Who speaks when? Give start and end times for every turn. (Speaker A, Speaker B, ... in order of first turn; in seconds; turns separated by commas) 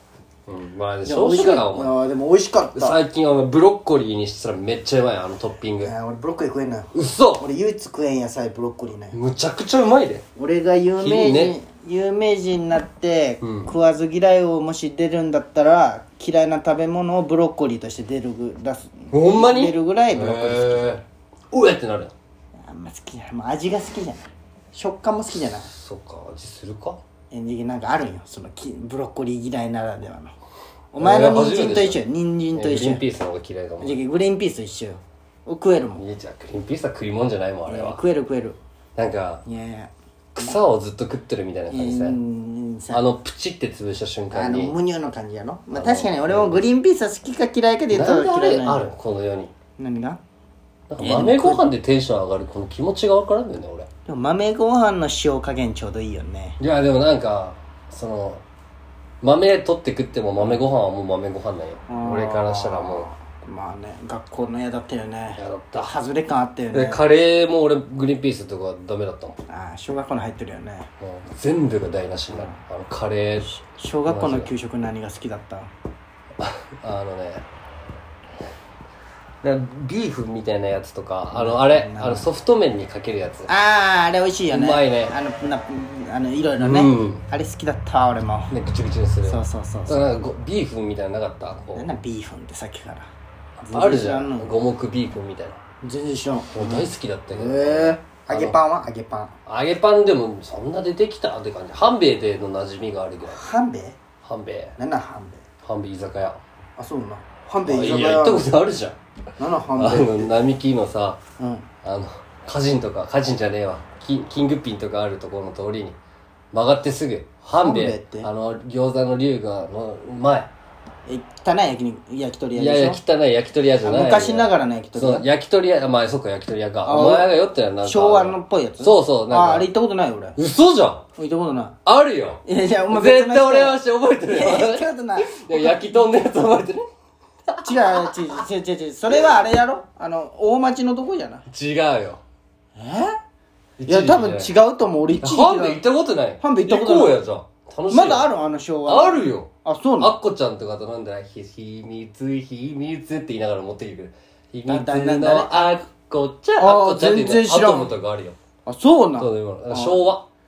Speaker A: 0.5-1.9, Speaker B: 1.1-3.0, Speaker A: 2.7-5.9, Speaker B: 5.8-9.2, Speaker A: 6.9-7.5, Speaker A: 9.1-10.2, Speaker B: 10.3-21.0, Speaker A: 11.0-11.6, Speaker A: 13.4-13.7, Speaker A: 19.1-22.1, Speaker B: 22.6-25.7, Speaker A: 25.6-27.0, Speaker B: 27.3-30.3, Speaker B: 30.9-33.0, Speaker A: 31.0-32.0, Speaker A: 32.5-34.0, Speaker B: 33.8-36.0, Speaker A: 36.0-38.0, Speaker B: 37.7-38.6, Speaker A: 39.0-39.4, Speaker B: 39.5-39.9, Speaker A: 40.3-42.2, Speaker B: 41.7-43.0, Speaker A: 42.9-44.7, Speaker B: 44.3-48.9, Speaker A: 45.7-46.7, Speaker A: 47.9-49.5, Speaker B: 49.8-50.2, Speaker A: 50.9-53.9, Speaker B: 51.0-51.6, Speaker B: 54.0-56.6, Speaker A: 56.6-58.4, Speaker A: 59.2-63.1, Speaker B: 61.9-67.0, Speaker A: 65.3-65.9, Speaker A: 66.7-69.3, Speaker B: 69.5-70.9, Speaker A: 71.0-73.5, Speaker B: 73.5-75.7, Speaker A: 74.0-74.5, Speaker A: 76.4-77.4, Speaker A: 79.4-83.5, Speaker B: 81.3-82.3, Speaker B: 83.5-88.5, Speaker A: 84.5-85.2, Speaker A: 86.6-87.2, Speaker A: 88.5-91.9, Speaker B: 89.2-90.1, Speaker B: 91.7-93.1, Speaker A: 93.6-95.6, Speaker B: 93.6-94.5, Speaker B: 95.8-99.3, Speaker A: 96.5-98.5, Speaker A: 99.5-103.4, Speaker B: 103.3-104.0, Speaker A: 104.2-104.8, Speaker B: 104.8-105.4, Speaker A: 105.6-106.4, Speaker B: 106.8-108.5, Speaker A: 107.6-109.0, Speaker B: 109.4-110.3, Speaker A: 109.7-111.2, Speaker B: 111.4-111.7, Speaker A: 111.8-116.0, Speaker A: 116.5-120.5, Speaker B: 117.6-118.3, Speaker B: 121.1-123.0, Speaker A: 122.5-129.7, Speaker B: 123.8-125.2, Speaker B: 126.8-127.3, Speaker B: 127.8-130.4, Speaker A: 130.3-131.0, Speaker B: 131.2-131.8, Speaker A: 131.8-136.8, Speaker B: 132.4-135.8, Speaker A: 137.5-138.4, Speaker B: 137.6-141.5, Speaker A: 141.5-142.2, Speaker B: 142.8-143.2, Speaker A: 143.8-144.5, Speaker B: 143.8-145.8, Speaker A: 145.2-148.3, Speaker B: 146.4-147.2, Speaker B: 147.9-150.2, Speaker A: 148.8-158.3, Speaker B: 154.7-155.8, Speaker B: 156.6-157.9, Speaker B: 158.7-160.1, Speaker A: 159.2-160.2